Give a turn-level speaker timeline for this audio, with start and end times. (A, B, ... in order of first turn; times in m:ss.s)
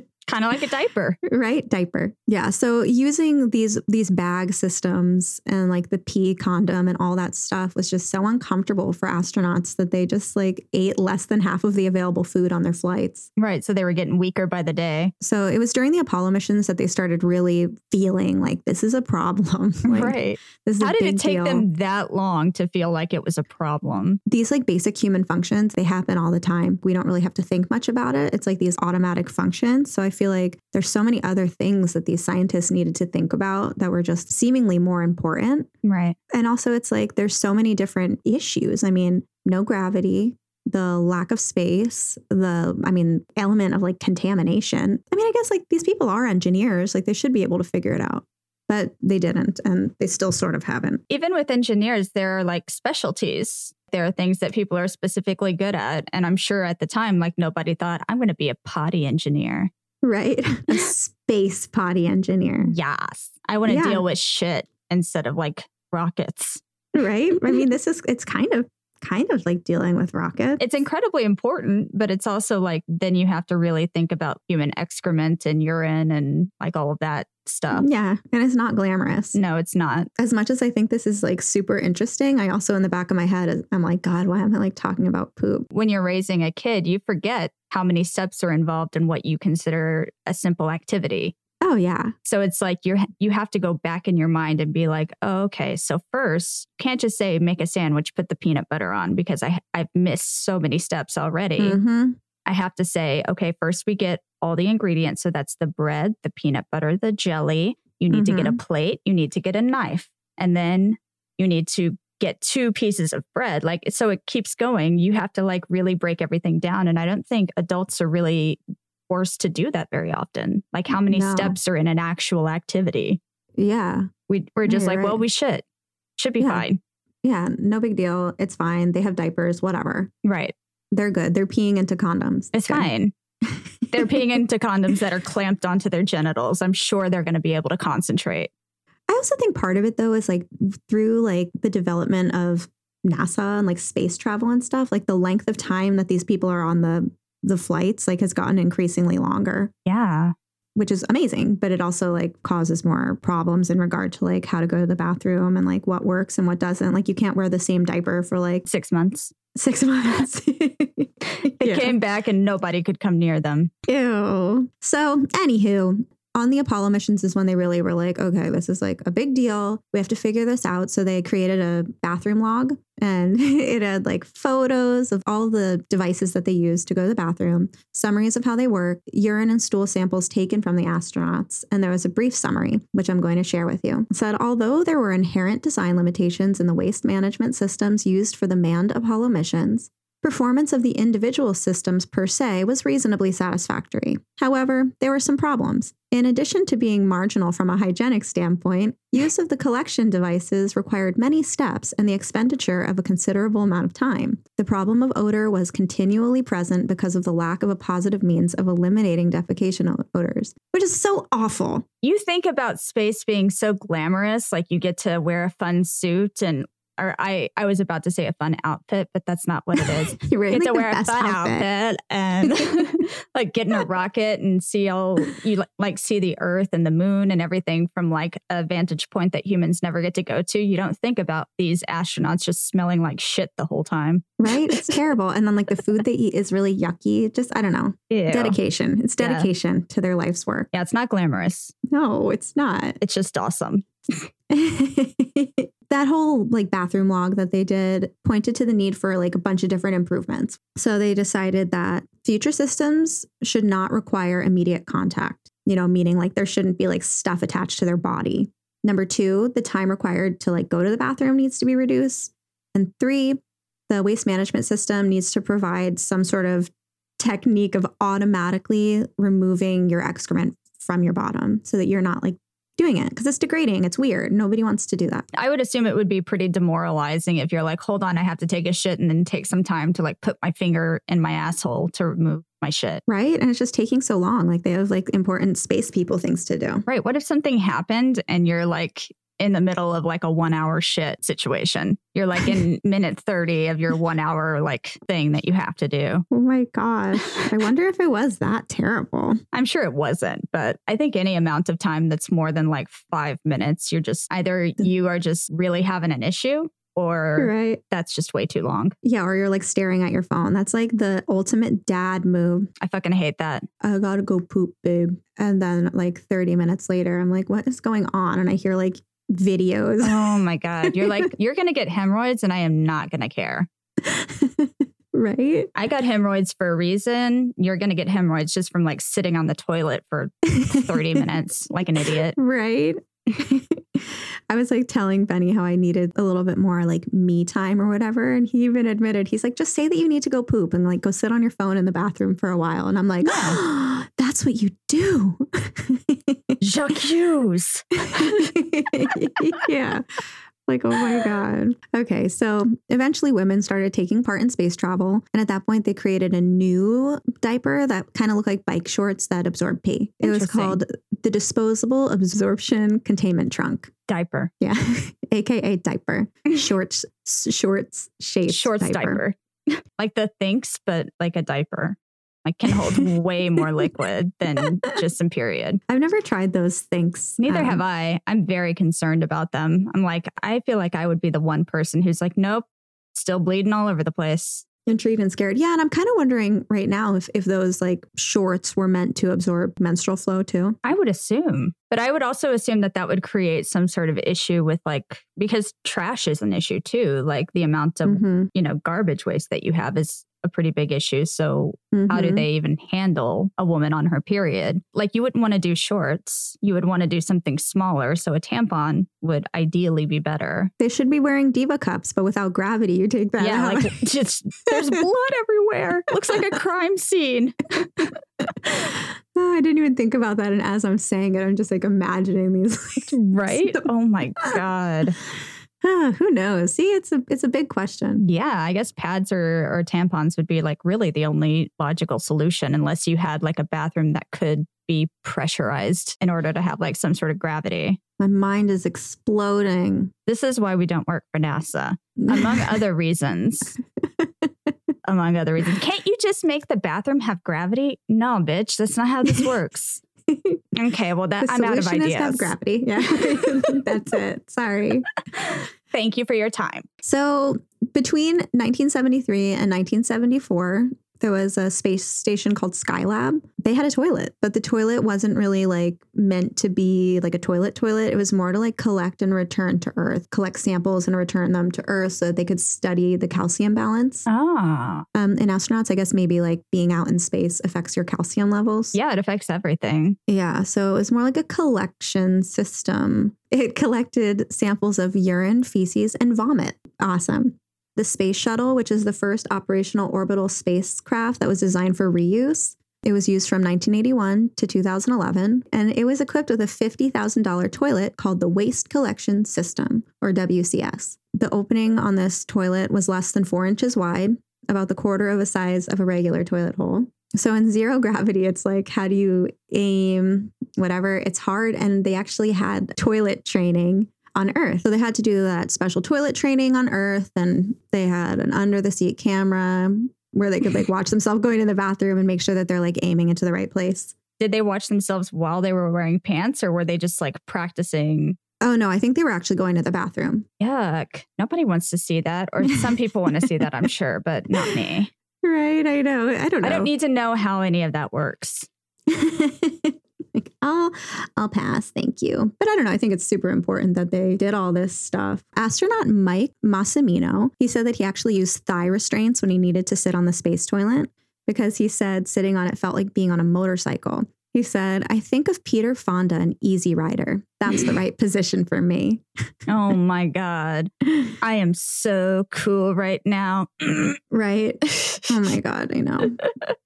0:00.3-0:01.2 A
0:01.2-0:13.3 B
0:13.4-0:15.1 A
0:15.2-0:21.7 B
0:19.8-0:24.2 A
0:24.2-0:35.7 B
0:35.8-0:36.2 A
0:36.3-0:51.0 B
0:51.1-0:59.7 A
1:00.0-1:02.7 B
1:02.6-1:06.6 A
1:03.7-1:04.0 B
1:06.9-1:10.6 B
1:10.6-1:17.8 A
1:17.7-1:19.4 B
1:19.3-1:20.1 A
1:20.2-1:25.7 B
1:25.7-1:31.3 A
1:31.6-1:32.1 B
1:32.2-1:41.8 A
1:41.6-1:42.2 B
1:42.4-2:03.2 A
1:48.1-1:48.6 B
2:01.0-2:01.6 B
2:03.6-2:04.1 B
2:04.3-2:05.6 A
2:04.6-2:05.2 B
2:06.2-2:06.8 A
2:06.4-2:06.6 B
2:07.2-2:10.1 B
2:10.2-2:10.5 A
2:10.9-2:12.9 B
2:12.5-2:13.1 A
2:13.4-2:14.3 B
2:13.9-2:18.5 A
2:19.1-2:29.7 B
2:29.8-2:30.3 A
2:30.8-2:38.6 B
2:38.6-2:39.3 A
2:39.5-2:42.0 B
2:41.6-2:43.7 A
2:43.9-3:31.8 B
3:32.0-3:54.8 A
3:39.8-3:41.6 B
3:54.4-4:00.7 B
3:58.1-3:58.6 A
3:59.2-3:59.5 A
4:00.7-4:01.7 A
4:01.9-4:03.0 B
4:03.0-4:04.3 A
4:04.5-4:35.3 B
4:35.3-4:43.0 A
4:43.1-4:46.8 B
4:46.9-4:56.2 A
4:56.3-4:59.4 B
4:59.5-5:09.0 A
5:07.4-5:07.8 B
5:09.0-5:12.7 B
5:12.8-5:13.7 A
5:13.8-5:21.3 B
5:20.0-5:23.7 A
5:24.0-5:25.7 B
5:25.7-5:32.4 A
5:30.5-5:31.2 B
5:32.3-5:46.6 B
5:43.2-5:43.6 A
5:46.6-5:48.5 A
5:48.0-5:50.0 B
5:50.7-6:03.9 B
6:00.2-6:00.8 A
6:04.1-6:04.5 A
6:04.6-6:09.2 B
6:08.5-6:15.8 A
6:15.9-6:17.8 B
6:17.4-6:24.6 A
6:24.8-6:30.8 B
6:30.8-6:50.7 A
6:38.0-6:38.5 B
6:41.9-6:42.4 B
6:50.8-6:54.0 B
6:53.4-6:58.1 A
6:58.7-7:03.9 B
7:03.1-7:05.2 A
7:05.8-7:08.2 B
7:08.2-7:18.0 A
7:18.2-7:20.1 B
7:20.3-7:23.8 A
7:22.2-7:22.8 B
7:25.0-7:30.0 A
7:30.3-7:30.6 B
7:30.8-7:32.5 A
7:31.4-7:35.1 B
7:33.2-7:33.7 A
7:35.3-7:36.9 A
7:37.0-7:54.3 B
7:54.3-7:55.0 A
7:55.1-7:59.0 B
7:58.9-8:00.2 A
8:00.3-8:44.1 B
8:44.4-8:48.4 A
8:48.6-8:50.4 B
8:50.6-8:55.1 A
8:55.4-8:56.9 B
8:56.6-8:58.7 A
8:59.1-9:19.2 B
9:19.7-9:24.2 A
9:24.3-9:26.4 B